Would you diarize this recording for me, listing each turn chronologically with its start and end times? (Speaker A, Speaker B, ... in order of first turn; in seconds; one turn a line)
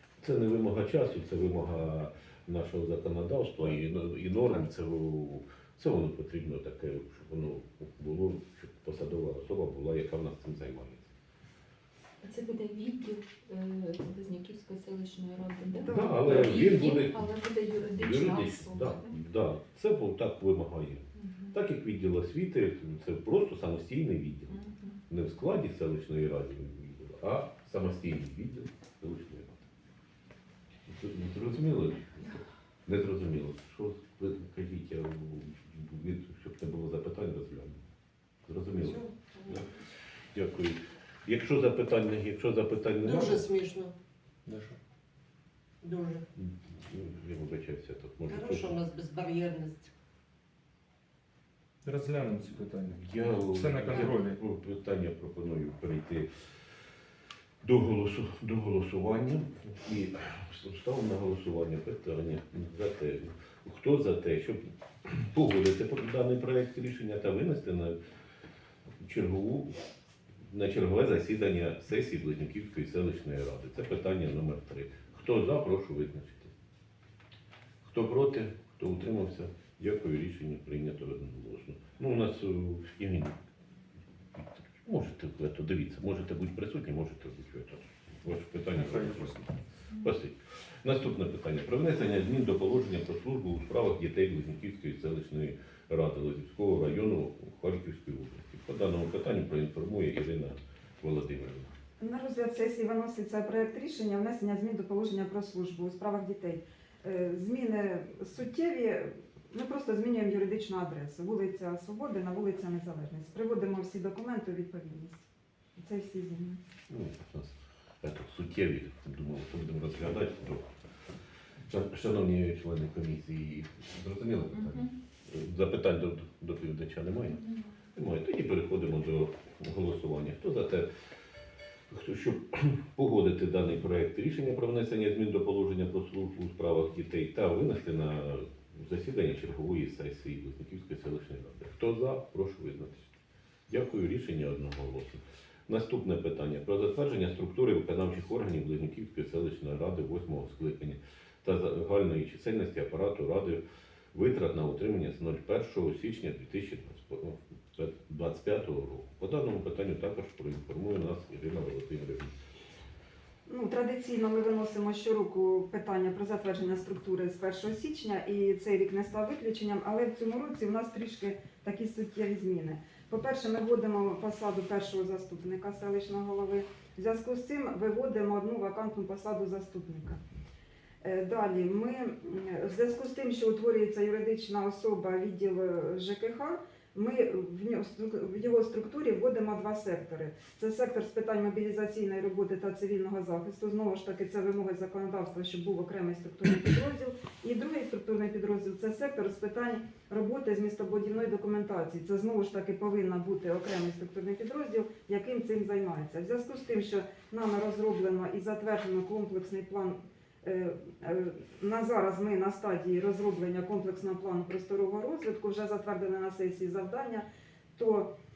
Speaker A: 0.2-11.1
Speaker B: 12.2-19.2
Speaker C: 15.8-16.2
Speaker A: 15.8-17.3
Speaker A: 17.9-24.6
Speaker B: 21.1-21.6
Speaker B: 24.5-25.0
Speaker A: 25.1-29.6
Speaker A: 30.9-37.8
Speaker A: 38.5-39.7
Speaker D: 38.7-39.7
Speaker A: 40.3-43.5
Speaker D: 43.0-43.9
Speaker E: 44.5-44.8
Speaker D: 45.8-46.3
Speaker A: 46.4-48.8
Speaker D: 48.3-49.9
Speaker E: 51.8-54.4
Speaker A: 52.9-56.3
Speaker A: 57.6-68.0
Speaker A: 69.0-69.8
Speaker A: 70.5-76.5
Speaker A: 77.8-83.4
Speaker A: 84.3-101.7
Speaker E: 88.7-89.3
Speaker C: 102.0-115.2
Speaker C: 115.8-116.6
Speaker A: 116.9-120.7
Speaker A: 121.7-127.4
Speaker B: 124.5-124.9
Speaker B: 127.3-127.8
Speaker A: 128.0-130.9
Speaker A: 131.9-153.6
Speaker A: 154.1-162.3
Speaker C: 163.5-180.2
Speaker C: 181.0-217.2
Speaker C: 217.8-218.1